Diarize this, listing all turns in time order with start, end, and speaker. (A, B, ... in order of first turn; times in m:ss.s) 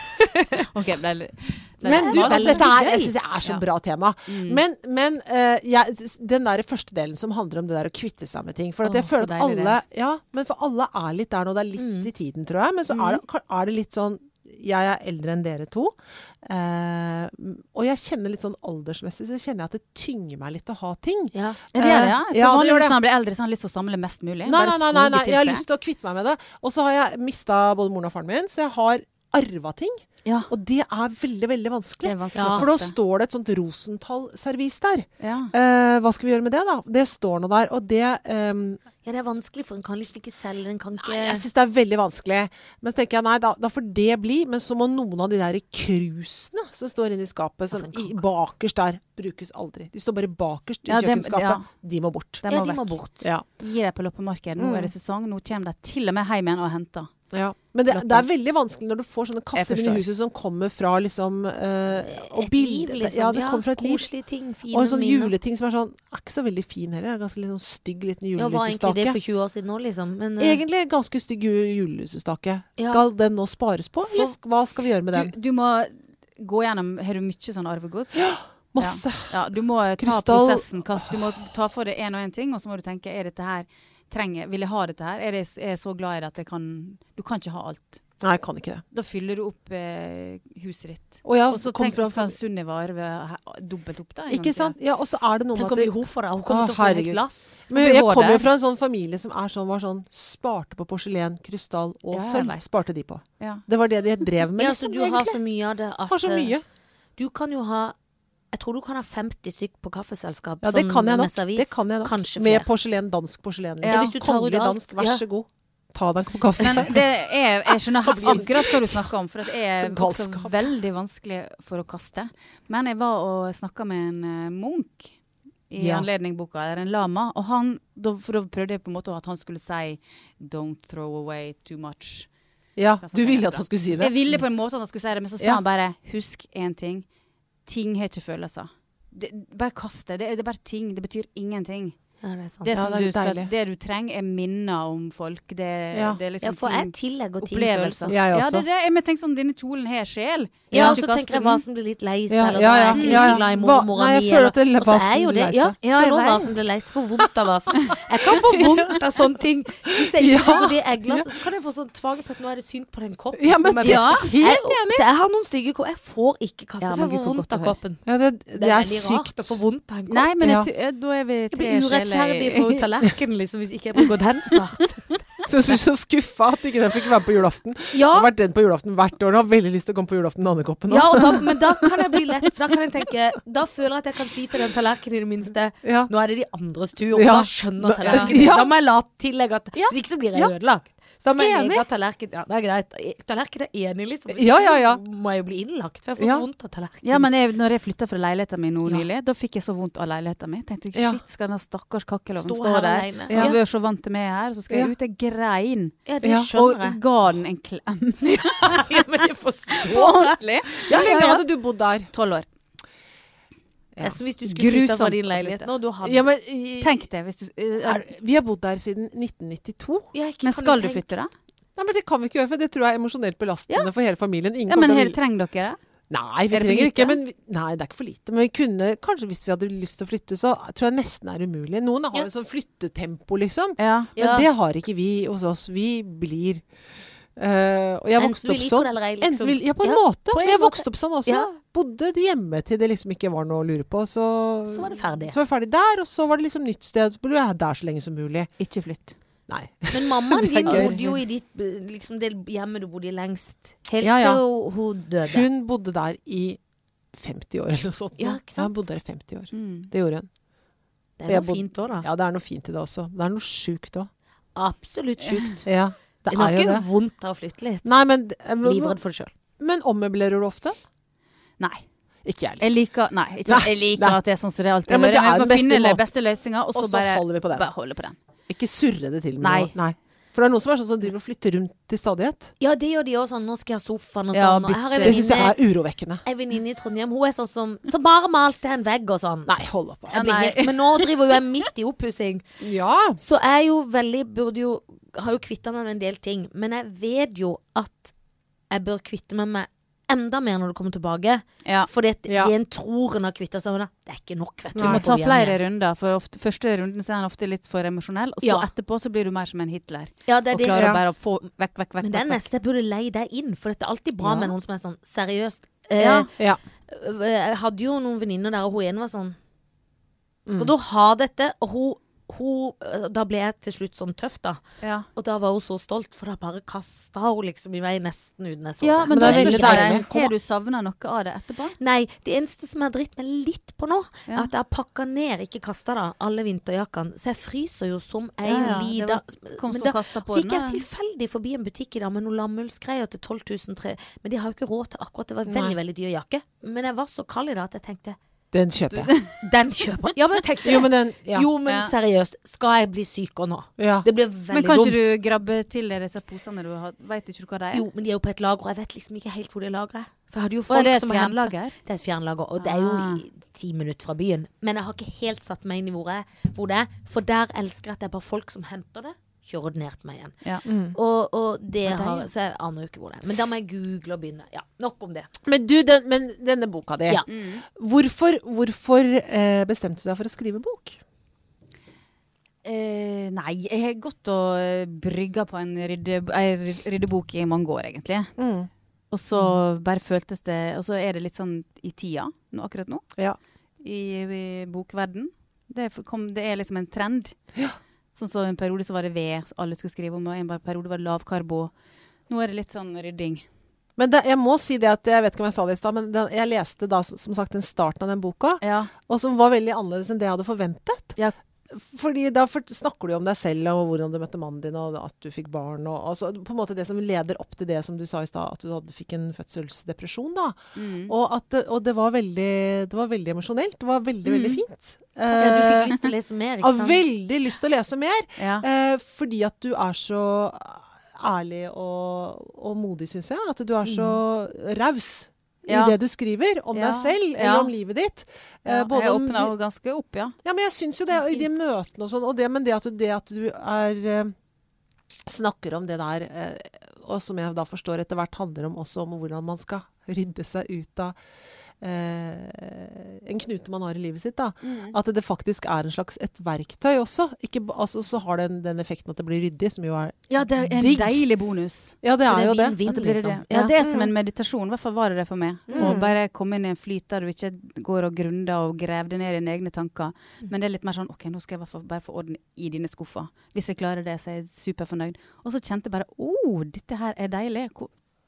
0:00.2-0:00.6 A
0:00.6-0:02.7 B
0:01.8-0:03.1 A
0:01.8-0:22.9 C
0:04.3-0:04.6 B
0:08.8-0:09.8 B
0:11.8-0:12.1 A
0:12.9-0:13.2 B
0:21.3-0:21.6 A
0:21.7-0:25.6 B
0:24.4-0:38.8 C
0:32.0-0:32.9 B
0:32.3-0:32.7 A
0:35.2-0:35.5 B
0:39.0-0:41.4 A
0:41.0-0:52.4 C
0:47.7-0:48.2 A
0:50.9-0:51.7 B
0:52.4-0:53.0 B
0:52.5-0:53.2 A
0:53.6-0:57.1 B
0:54.6-0:54.9 C
0:57.3-1:04.1 C
0:57.9-0:58.3 B
0:59.5-1:00.0 B
1:02.0-1:05.3 A
1:04.7-1:09.2 C
1:08.4-1:10.6 A
1:10.4-1:15.3 C
1:12.8-1:13.0 A
1:15.1-1:18.3 B
1:18.2-1:19.3 C
1:18.8-1:28.0 B
1:20.0-1:21.2 C
1:28.2-1:28.8 C
1:28.9-1:34.7 B
1:31.2-1:32.3 C
1:34.3-1:35.9 C
1:35.5-1:37.5 A
1:36.5-1:45.4 C
1:37.7-1:38.5 B
1:42.1-1:42.7 B
1:44.6-1:46.5 A
1:46.1-1:46.6 C
1:47.2-1:48.0 A
1:48.5-1:52.7 A
1:50.6-1:57.0 C
1:53.8-1:54.1 B
1:53.9-1:55.2 A
1:56.6-2:05.1 B
1:58.0-1:59.0 C
1:59.7-2:00.7 C
2:05.7-2:12.3 B
2:05.8-2:06.0 C
2:12.8-2:14.1 C
2:13.0-2:17.0 B
2:17.6-2:22.0 B
2:22.2-2:22.7 A
2:22.6-2:31.6 B
2:22.7-2:23.5 C
2:25.9-2:26.2 C
2:26.4-2:28.2 A
2:28.1-2:28.6 C
2:30.7-2:48.0 A
2:30.7-2:31.0 C
2:32.3-2:35.8 C
2:32.9-2:33.4 B
2:35.8-2:36.5 B
2:38.3-2:39.0 C
2:39.9-2:41.3 C
2:43.4-2:45.0 C
2:43.8-2:44.3 B
2:46.8-2:47.7 B
2:48.0-2:49.6 C
2:48.5-2:50.3 A
2:50.1-2:52.8 B
2:50.4-2:50.7 C
2:51.5-2:55.1 A
2:55.4-3:01.9 C
2:57.9-2:58.3 A
3:00.9-3:17.3 A
3:05.8-3:06.1 C
3:07.1-3:08.7 C
3:08.0-3:08.4 B
3:09.7-3:10.5 C
3:11.4-3:11.8 C
3:14.3-3:15.0 C
3:16.2-3:16.4 C
3:17.0-3:26.0 B
3:20.9-3:21.2 C
3:22.4-3:23.6 A
3:23.3-3:23.6 C
3:26.0-3:27.0 A
3:26.2-3:26.5 C
3:26.5-3:31.3 B
3:28.2-3:31.4 A
3:30.9-3:32.1 C
3:32.1-3:32.4 B
3:34.0-3:36.2 A
3:34.4-3:35.7 B
3:36.0-3:37.0 C
3:36.8-3:38.0 B
3:37.8-3:40.1 C
3:40.1-3:41.0 A
3:40.4-3:41.3 B
3:41.8-3:45.2 C
3:44.7-3:45.8 B
3:46.1-3:56.6 C
3:46.5-3:47.2 B
3:53.8-3:54.1 B
3:54.2-3:54.5 A
3:57.4-4:08.5 C
3:58.2-4:01.5 A
4:04.7-4:05.4 A
4:08.6-4:09.2 B
4:09.5-4:11.0 C
4:09.9-4:15.4 A
4:10.6-4:11.1 B
4:14.0-4:14.4 C
4:15.2-4:16.6 C
4:17.1-4:20.3 C
4:18.2-4:18.7 A
4:19.5-4:19.9 B
4:21.2-4:22.0 A
4:21.3-4:24.1 C
4:24.6-4:25.7 A
4:25.2-4:25.5 B
4:25.6-4:26.8 C
4:26.3-4:27.9 A
4:27.8-4:29.0 C
4:28.6-4:29.3 A
4:29.6-4:30.8 C
4:31.6-4:31.8 B
4:32.2-4:32.6 C
4:32.6-4:38.2 B
4:33.4-4:34.2 C
4:34.9-4:36.0 C
4:36.7-4:37.7 C
4:38.5-4:42.5 C
4:39.4-4:39.7 B
4:42.6-4:45.6 A
4:44.3-4:45.5 B
4:45.0-4:46.2 C
4:46.2-4:49.5 A
4:49.5-4:50.4 C
4:50.1-4:52.4 A
4:50.1-4:51.3 B
4:52.6-4:53.2 C
4:53.2-4:58.1 A
4:58.7-5:05.6 A
5:01.6-5:01.9 B
5:02.3-5:02.5 C
5:04.7-5:05.1 C
5:04.8-5:12.5 B
5:08.4-5:08.7 A
5:10.3-5:10.9 A
5:10.6-5:11.0 C
5:12.0-5:16.3 A
5:14.2-5:14.5 C
5:16.0-5:16.3 B
5:16.9-5:19.4 A
5:20.4-5:20.7 C
5:20.5-5:24.6 A
5:24.8-5:25.1 B
5:25.1-5:30.1 A
5:28.8-5:31.7 B
5:29.1-5:30.3 C
5:31.8-5:48.2 A
5:38.4-5:40.8 B
5:45.5-5:45.8 C
5:48.5-5:49.1 C
5:48.9-5:49.3 B
5:49.4-5:55.1 A
5:50.6-5:51.5 C
5:51.6-5:51.9 B
5:53.8-5:54.1 C
5:54.5-5:57.8 B
5:57.7-6:15.3 A
6:00.7-6:01.7 B
6:02.6-6:03.2 B
6:10.6-6:11.0 C
6:11.8-6:12.3 B
6:15.4-6:21.0 C
6:17.3-6:17.6 B
6:22.6-6:28.3 B
6:28.4-6:28.7 C
6:29.1-6:33.0 B
6:33.8-6:37.4 B
6:38.1-6:41.7 B
6:42.3-6:43.4 B
6:44.0-6:51.2 C
6:48.6-6:48.9 B
6:51.7-7:06.0 C
7:00.8-7:01.1 B
7:04.2-7:04.6 B
7:05.3-7:07.0 A
7:06.6-7:19.5 C
7:08.4-7:08.6 B
7:13.9-7:14.2 B
7:15.7-7:16.0 B
7:16.7-7:17.7 B
7:18.6-7:20.3 B
7:20.4-7:24.3 C
7:25.2-7:31.2 C
7:31.8-7:41.2 C
7:34.6-7:35.0 B
7:40.3-7:42.0 B
7:42.0-7:42.8 C
7:42.3-7:43.7 A
7:42.8-7:57.9 B
7:43.8-7:44.1 C
7:45.7-7:46.1 C